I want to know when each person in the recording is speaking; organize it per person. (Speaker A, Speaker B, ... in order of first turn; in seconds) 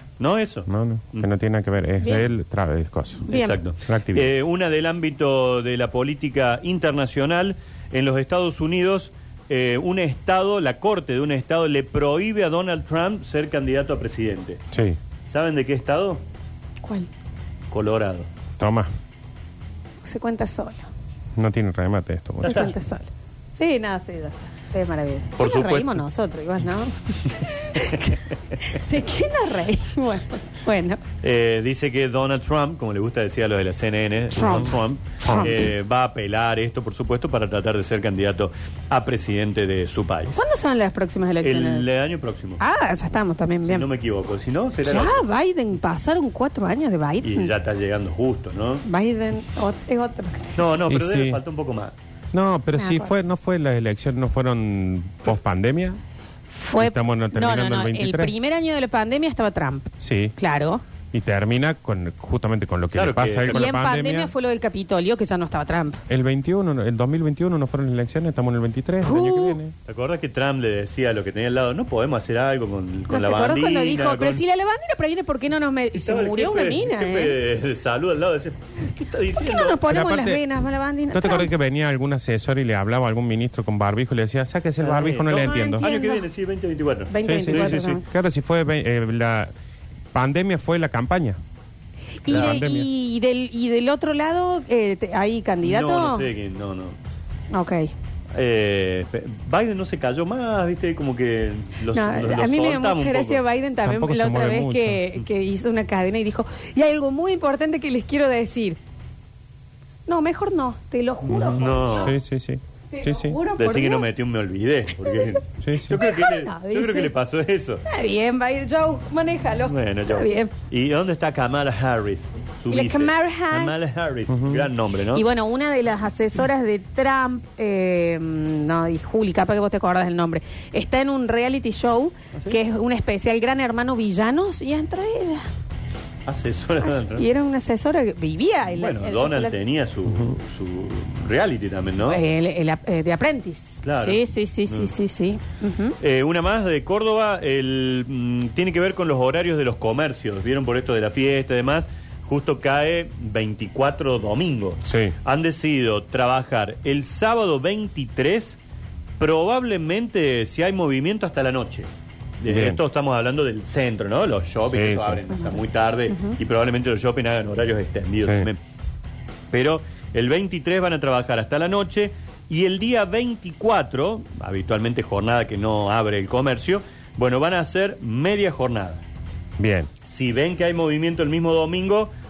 Speaker A: 0.2-1.3, 3.3-14.6, 15.3-16.2, 17.7-18.3, 22.4-22.7, 25.4-26.0, 31.2-40.4, 41.4-42.6, 43.6-45.2, 47.2-48.8, 50.5-51.9, 62.9-63.7, 69.8-74.4, 75.9-79.9, 84.8-88.0, 92.3-92.6, 95.6-97.0, 98.3-103.4, 111.5-112.2, 113.6-117.8, 119.6-125.2, 136.2-137.3, 138.7-142.2, 143.8-144.9, 146.0-158.6, 159.2-161.9, 162.4-168.6, 169.5-179.0, 180.0-182.1
Speaker B: 0.7-3.3, 3.8-4.3, 14.7-15.0, 18.6-18.9, 21.4-22.7, 35.2-35.5, 50.9-51.4, 52.3-56.0, 56.8-58.3, 60.0-60.4, 61.1-64.3, 66.1-69.7, 79.8-80.4, 81.1-85.9, 87.2-89.5, 90.1-91.4, 92.2-92.9, 103.8-105.0, 111.3-113.3, 115.6-116.0, 124.3-124.6, 140.1-140.3, 154.8-155.1, 162.4-162.8, 164.7-165.2, 168.2-168.5, 179.6-179.9
Speaker C: 2.0-2.2, 3.2-3.6, 16.8-17.1, 20.0-20.9, 22.4-31.0, 34.3-35.5, 40.4-41.9, 42.6-43.9, 44.8-47.5, 48.8-50.6, 52.8-53.1, 56.5-60.8, 63.5-66.0, 69.0-69.6, 73.1-77.4, 79.3-81.5, 85.3-86.3, 87.1-88.0, 92.2-96.3, 97.5-97.9, 101.9-108.8, 110.1-112.2, 112.9-114.1, 115.0-115.4, 115.9-117.1, 117.9-120.5, 122.7-123.8, 125.1-135.4, 136.8-139.6, 142.0-146.0, 165.4-166.4